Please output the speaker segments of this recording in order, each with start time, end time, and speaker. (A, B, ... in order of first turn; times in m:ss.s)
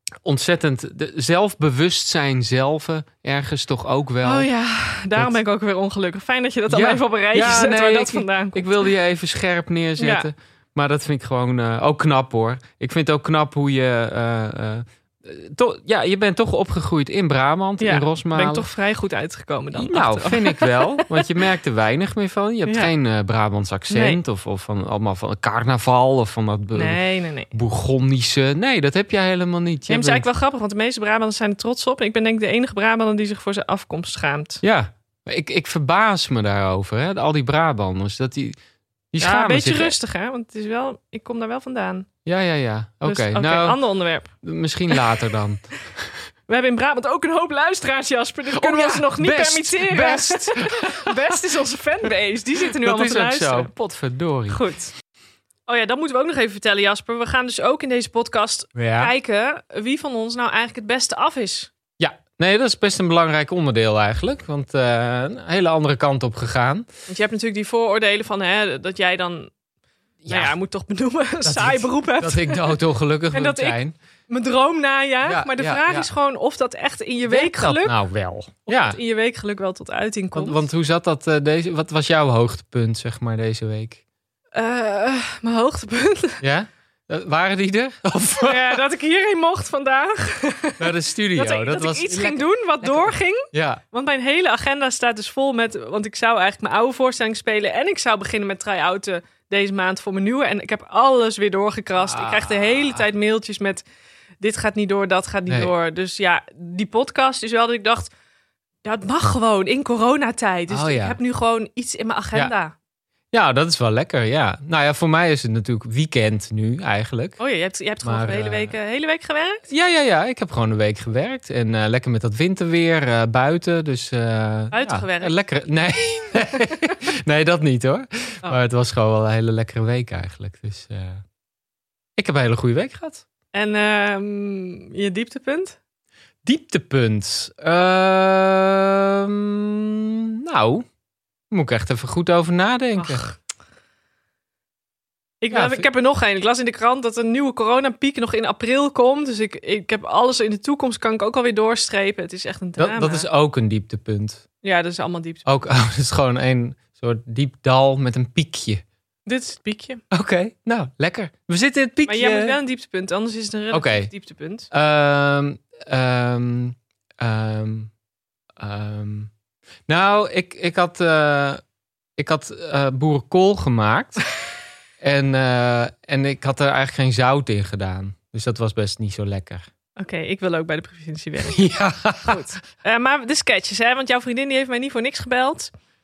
0:00.2-0:04.5 A
0:04.2-0:08.9 B
0:06.7-0:18.6 A
0:10.0-0:10.3 B
0:17.8-0:21.2 B
0:19.8-0:27.0 A
0:22.6-0:22.9 B
0:23.9-0:24.2 B
0:26.7-0:27.5 B
0:27.5-0:30.2 A
0:29.9-0:34.6 B
0:34.6-0:38.6 A
0:39.1-0:40.0 A
0:39.2-0:42.1 B
0:42.2-0:43.8 A
0:43.0-0:44.3 B
0:44.4-0:46.0 A
0:46.5-0:53.7 B
0:48.5-0:51.1 A
0:52.8-0:54.6 A
0:54.5-0:54.9 B
0:55.7-1:01.7 B
0:58.7-0:59.1 A
1:02.0-1:06.8 A
1:07.1-1:09.5 B
1:10.2-1:10.5 A
1:10.3-1:12.8 B
1:11.4-1:13.9 A
1:13.3-1:17.9 B
1:15.2-1:16.1 A
1:17.3-1:19.0 A
1:18.7-1:20.6 B
1:20.3-1:24.0 A
1:24.5-1:26.4 B
1:26.4-1:28.8 A
1:28.4-1:43.8 B
1:30.8-1:33.8 A
1:42.0-1:43.0 A
1:44.4-1:48.1 B
1:48.8-1:52.7 B
1:50.7-1:51.2 A
1:53.3-1:57.4 A
1:57.4-1:59.6 B
1:58.0-1:58.7 A
1:59.7-2:11.2 A
2:04.7-2:05.3 B
2:12.2-2:13.2 A
2:13.5-2:15.8 B
2:16.4-2:20.8 A
2:21.5-2:23.3 A
2:23.0-2:23.3 B
2:25.4-2:33.2 B
2:25.5-2:25.8 A
2:32.8-2:34.4 A
2:34.6-2:35.5 B
2:35.4-2:38.8 A
2:39.2-2:40.0 B
2:40.1-2:42.6 A
2:42.1-2:44.7 B
2:43.7-2:44.1 A
2:44.7-2:47.9 A
2:48.6-2:49.3 A
2:49.9-2:51.6 A
2:52.2-2:54.2 A
2:55.0-2:59.7 A
3:00.0-3:01.7 B
3:01.5-3:02.4 A
3:02.2-3:05.7 B